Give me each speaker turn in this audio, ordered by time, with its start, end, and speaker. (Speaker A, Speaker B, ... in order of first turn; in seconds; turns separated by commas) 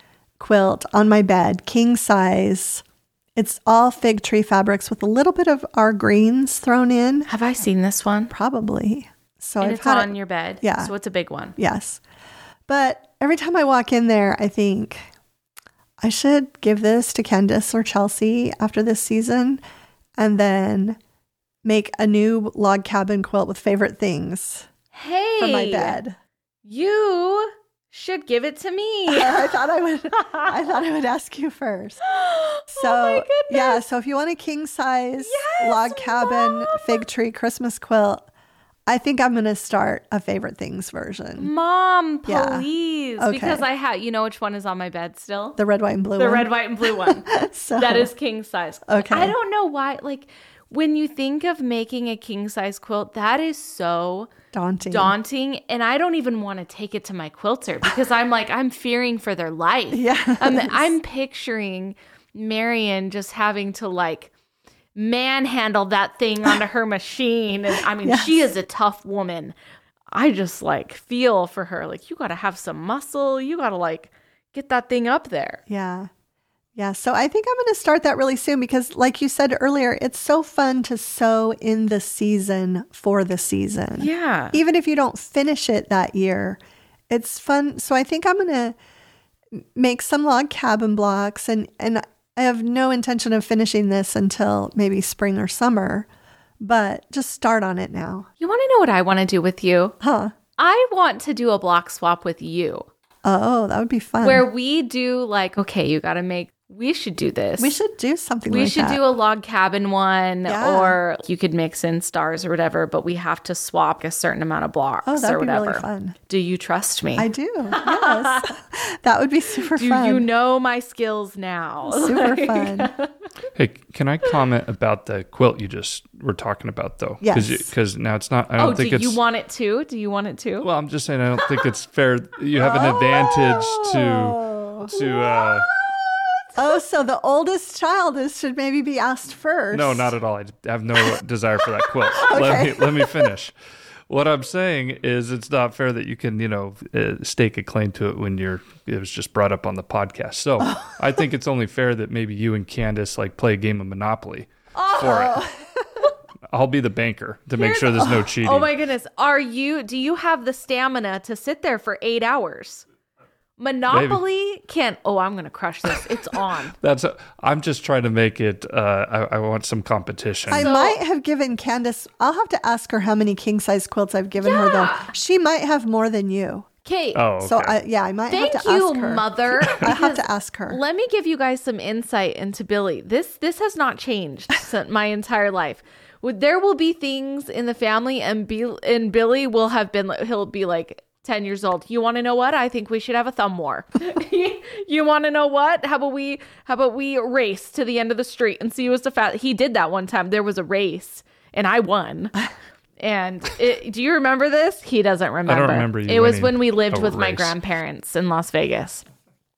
Speaker A: 0.4-2.8, Speaker A: 3.4-7.3, Speaker B: 7.3-8.3, Speaker A: 8.3-10.9, Speaker B: 9.6-11.6, Speaker A: 11.6-12.0, Speaker A: 12.7-15.0, Speaker A: 16.0-19.6, Speaker A: 20.2-21.0, Speaker A: 21.6-24.7, Speaker B: 24.9-26.0, Speaker A: 25.4-26.1, Speaker B: 26.6-29.5, Speaker A: 29.1-32.0, Speaker B: 30.2-30.5, Speaker B: 32.0-33.8, Speaker A: 32.7-38.2, Speaker B: 35.2-37.0, Speaker A: 38.9-41.5, Speaker B: 41.4-45.6, Speaker A: 42.2-42.6, Speaker A: 43.2-43.6, Speaker A: 45.6-48.1, Speaker B: 46.2-54.3, Speaker A: 48.9-49.3, Speaker A: 54.5-55.1, Speaker B: 54.9-64.3, Speaker A: 59.9-60.9, Speaker B: 64.9-69.5, Speaker A: 68.0-68.5, Speaker B: 70.1-75.6, Speaker A: 75.7-76.1, Speaker A: 76.8-86.6, Speaker B: 84.0-84.6, Speaker A: 87.1-88.7, Speaker A: 89.5-96.1, Speaker A: 96.6-98.3, Speaker B: 98.4-100.0, Speaker A: 100.0-100.3, Speaker B: 100.6-102.9, Speaker A: 103.2-104.5, Speaker B: 104.2-107.8, Speaker A: 107.6-109.0, Speaker B: 108.5-118.5, Speaker A: 110.5-111.0, Speaker A: 115.0-116.2, Speaker A: 117.2-120.2, Speaker B: 119.7-123.1, Speaker A: 121.8-122.9, Speaker C: 123.5-129.2, Speaker A: 127.2-127.7, Speaker B: 128.6-130.7, Speaker C: 130.6-135.7, Speaker A: 132.6-135.0, Speaker B: 132.6-133.2, Speaker A: 136.6-140.1, Speaker C: 139.7-143.5, Speaker A: 142.1-143.3, Speaker C: 144.1-155.4, Speaker A: 150.6-150.9, Speaker B: 154.8-155.3, Speaker A: 155.0-156.0, Speaker C: 156.5-158.7, Speaker B: 157.6-162.8, Speaker B: 163.6-166.7, Speaker C: 163.9-164.2, Speaker C: 166.8-170.7, Speaker A: 170.5-176.7, Speaker B: 170.6-171.0, Speaker B: 174.4-175.1, Speaker B: 176.8-177.2, Speaker C: 177.1-177.8, Speaker A: 177.4-180.8, Speaker B: 178.3-202.3, Speaker B: 203.0-209.1, Speaker C: 205.5-207.6